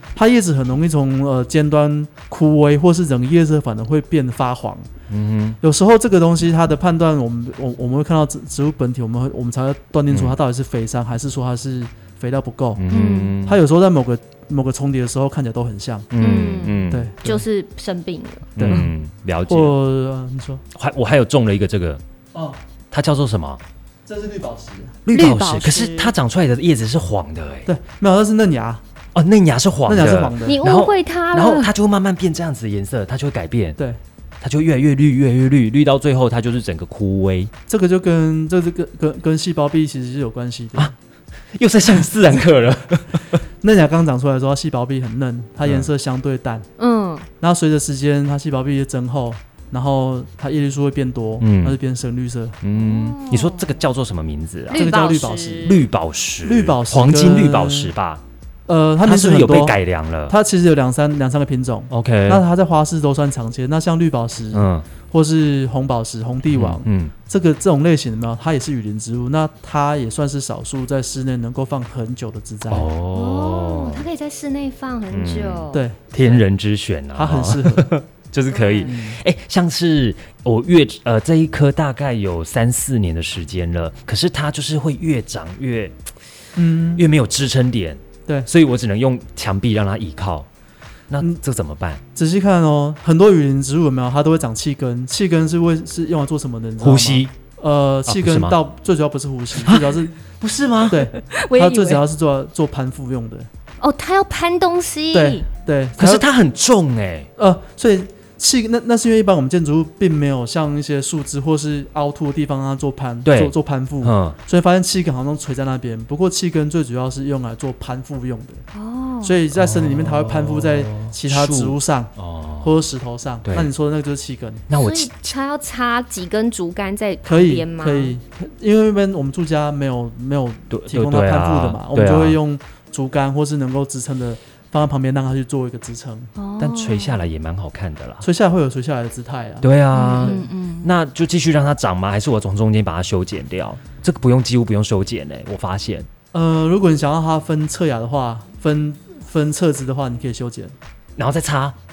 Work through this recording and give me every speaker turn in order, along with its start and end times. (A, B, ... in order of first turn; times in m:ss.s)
0:00.2-0:04.9 A
0:05.1-0:05.6 B
0:05.6-0:12.8 A
0:10.1-0:10.4 B
0:12.8-0:13.6 B
0:12.9-0:13.4 C
0:13.4-0:16.1 A
0:16.1-0:17.1 B
0:16.2-0:18.8 C
0:16.9-0:17.4 A
0:18.6-0:19.7 B
0:18.6-0:18.9 A
0:19.5-0:20.6 A
0:20.7-0:22.0 B
0:22.3-0:22.6 A
0:22.9-0:23.6 B
0:24.1-0:25.0 A
0:25.1-0:27.7 B
0:25.1-0:26.1 C
0:27.6-0:28.8 A
0:29.1-0:33.8 B
0:29.9-0:30.6 A
0:30.4-0:31.7 C
0:34.4-0:37.5 B
0:37.7-0:40.9 A
0:41.5-0:43.4 B
0:43.6-0:46.7 A
0:45.6-0:45.9 B
0:46.8-0:47.3 C
0:47.4-0:52.6 A
0:51.4-0:51.8 B
0:52.6-0:55.0 B
0:52.7-0:53.7 C
0:54.7-0:55.8 C
0:54.7-0:55.7 A
0:55.6-0:58.2 B
0:56.4-0:57.9 A
0:58.7-1:12.9 A
0:59.0-1:00.4 B
1:01.9-1:02.4 B
1:04.5-1:04.9 B
1:06.5-1:07.1 B
1:12.7-1:14.1 B
1:13.1-1:15.8 C
1:15.1-1:26.1 B
1:15.7-1:16.4 A
1:17.1-1:18.0 A
1:18.5-1:18.9 C
1:18.9-1:19.2 A
1:26.6-1:27.1 A
1:26.9-1:30.5 B
1:31.1-1:32.0 B
1:32.1-1:40.2 A
1:36.8-1:37.3 B
1:38.1-1:38.6 B
1:39.6-1:41.1 B
1:40.8-1:43.5 A
1:41.2-1:42.0 C
1:43.8-1:45.4 C
1:45.1-1:46.2 A
1:46.0-1:47.3 B
1:47.4-1:58.6 A
1:53.2-1:54.4 B
1:58.7-1:59.4 C
1:59.2-2:04.6 A
1:59.5-2:02.7 B
2:03.4-2:03.7 B
2:04.7-2:05.1 B
2:04.7-2:08.2 C
2:07.2-2:16.3 A
2:10.7-2:12.4 B
2:16.4-2:17.2 C
2:16.6-2:18.2 B
2:18.2-2:20.5 A
2:19.6-2:26.1 B
2:19.9-2:20.9 C
2:26.3-2:30.7 A
2:31.2-2:31.8 B